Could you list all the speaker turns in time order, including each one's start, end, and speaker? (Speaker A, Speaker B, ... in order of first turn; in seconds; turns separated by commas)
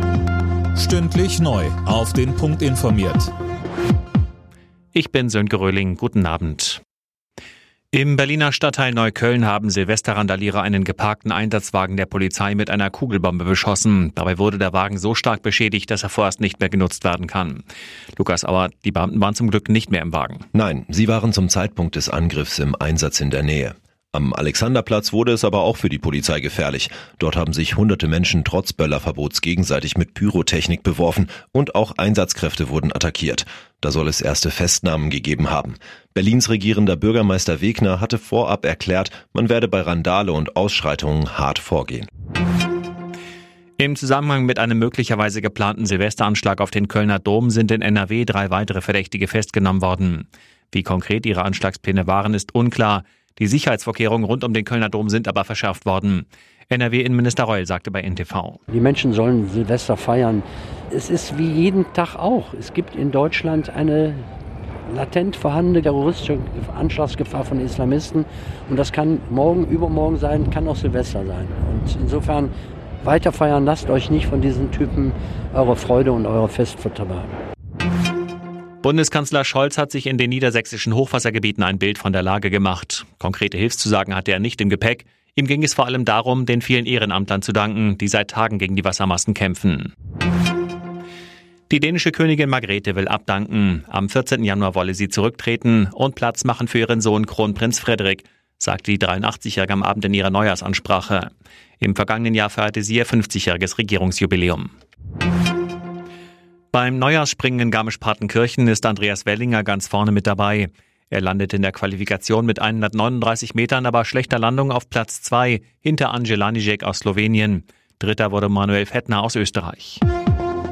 Speaker A: 0.8-3.3, Speaker B: 4.9-6.8, Speaker B: 7.9-17.6, Speaker B: 18.2-20.5, Speaker C: 20.5-42.1, Speaker B: 43.8-58.6, Speaker D: 58.7-64.3, Speaker D: 64.9-77.3, Speaker B: 78.8-89.9, Speaker B: 91.7-104.7, Speaker B: 106.7-120.0